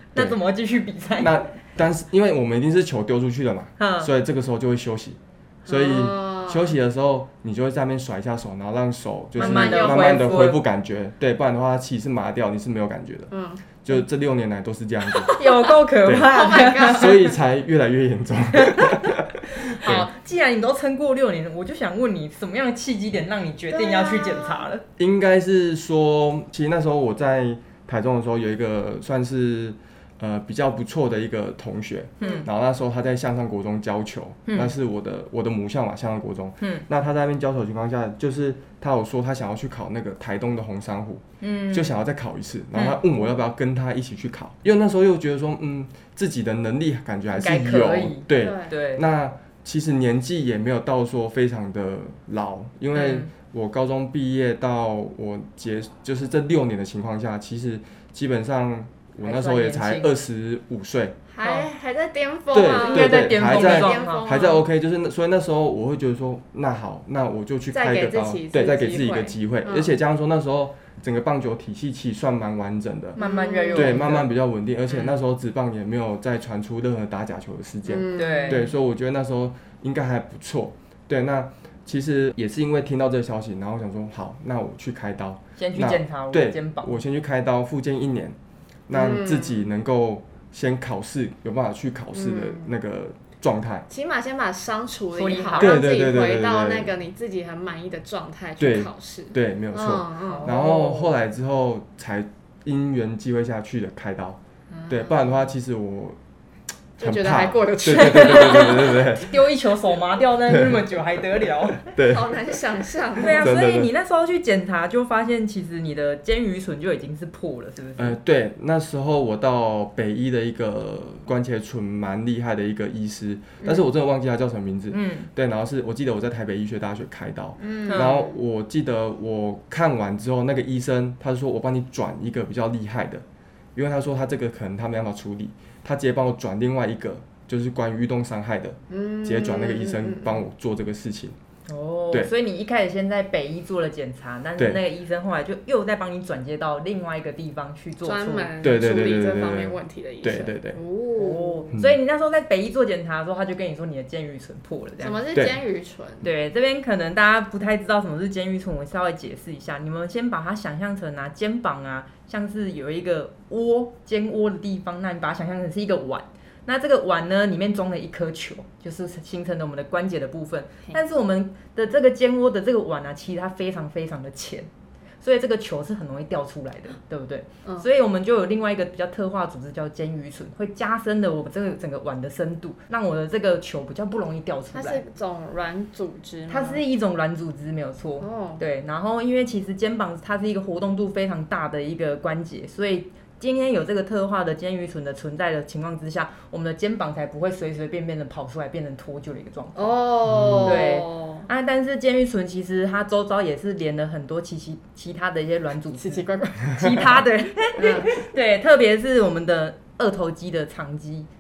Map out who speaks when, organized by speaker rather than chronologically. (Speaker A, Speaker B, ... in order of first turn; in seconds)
Speaker A: 0.1-1.4, 3.8-4.1, 9.4-10.6, 15.3-17.3, 18.5-24.9, 32.2-32.5, 34.5-34.7, 41.4-41.9, 42.7-43.0, 47.3-49.0, 52.9-53.3, 59.2-60.1, 62.7-64.5, 73.2-74.3, 78.2-78.7, 85.6-87.0, 95.2-95.8, 100.3-101.1, 107.9-111.9, 113.2-118.2, 124.9-125.3, 127.9-128.2, 141.7-148.5, 151.2-155.2, 156.2-174.7, 175.2-185.0, 186.5-200.0, 200.6-211.3
Speaker B: 1.2-13.3, 13.8-15.3, 16.0-20.1, 25.0-61.2, 62.5-73.2, 73.7-88.4, 88.9-93.9, 95.6-96.9, 98.6-106.2, 107.0-109.4, 110.5-110.8, 111.8-112.6, 113.2-113.9, 118.0-133.2, 133.8-141.3, 148.6-150.8, 200.3-200.8
Speaker C: 5.7-6.8, 9.4-10.5, 13.3-13.7, 15.1-17.3, 23.7-24.6, 48.4-48.7, 61.3-64.6, 67.7-70.0, 73.2-74.1, 77.9-78.7, 88.9-89.7, 92.1-92.7, 93.9-100.8, 104.7-105.4, 107.0-109.0, 112.0-113.5, 123.6-123.9, 127.6-128.3, 138.9-140.4, 148.0-151.7, 155.0-156.3, 184.7-186.8, 188.2-188.6, 199.8-201.5, 206.0-207.2, 207.8-208.2